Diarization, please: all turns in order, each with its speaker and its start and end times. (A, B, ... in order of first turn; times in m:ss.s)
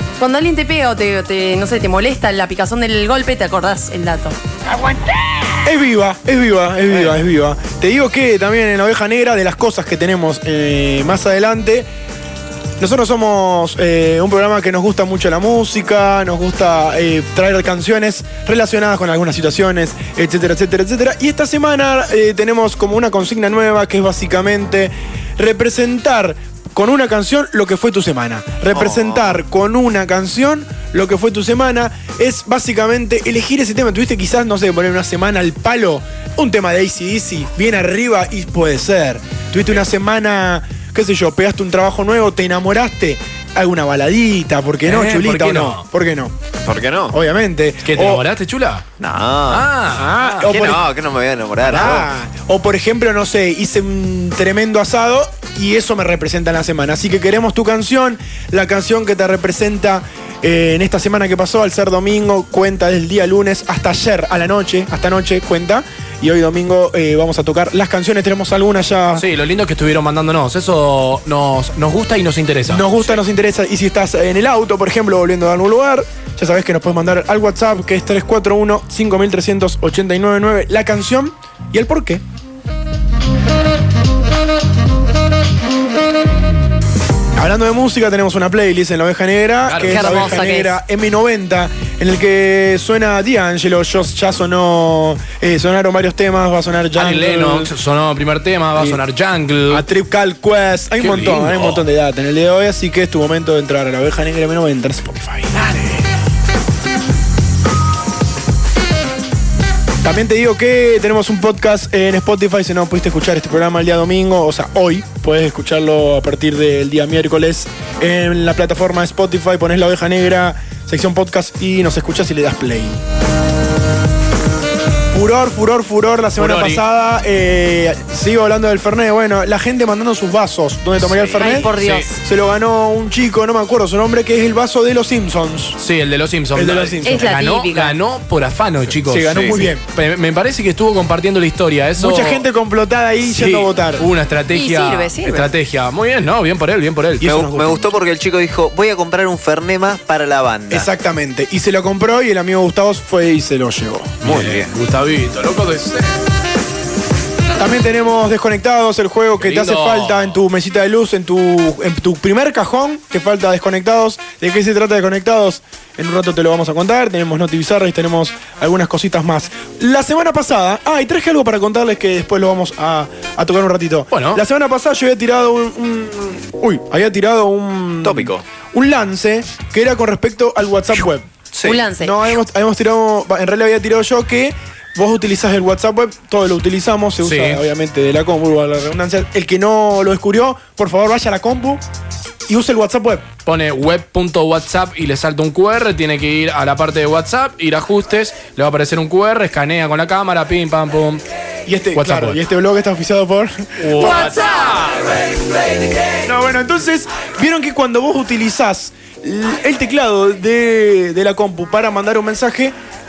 0:00.2-0:04.4 A
0:05.6-0:11.9 B
0:12.8-0:46.3 B
0:28.7-0:29.4 C
0:44.8-0:45.8 D
0:46.6-0:47.2 C
0:47.1-0:48.2 B
0:47.8-0:48.8 D
0:49.0-0:49.7 C
0:49.5-0:50.5 D
0:49.9-0:50.8 B
0:50.4-0:52.1 C
0:51.6-1:09.2 B
0:51.7-0:52.0 D
1:09.2-1:12.9 D
1:12.7-1:22.2 B
1:27.4-1:37.7 B
1:29.6-1:30.4 D
1:29.8-1:30.8 A
1:37.0-1:39.8 D
1:38.8-1:39.0 B
1:39.7-1:46.0 B
1:41.0-1:41.8 D
1:50.0-2:03.0 B
2:05.1-2:15.8 B
2:06.4-2:06.8 D
2:11.1-2:11.5 C
2:11.4-2:12.2 A
2:11.6-2:12.1 D
2:15.8-2:22.4 D
2:16.5-2:17.3 B
2:17.0-2:18.0 A
2:19.0-2:19.8 B
2:22.0-2:24.1 B
2:23.2-2:27.3 D
2:24.5-2:25.5 A
2:27.2-2:27.9 B
2:27.2-2:30.9 C
2:30.7-2:34.2 B
2:34.2-2:36.1 D
2:34.2-2:34.6 C
2:37.6-3:01.3 B
2:39.4-2:40.4 D
2:54.1-2:54.4 D
2:58.0-2:58.4 C
3:01.5-3:01.8 C
3:01.6-3:02.2 A
3:02.0-3:11.8 B
3:07.2-3:07.6 D
3:12.5-3:13.3 B
3:13.4-3:21.2 D
3:21.6-3:24.4 B
3:21.9-3:22.4 D
3:23.8-3:25.2 D
3:26.2-3:32.7 B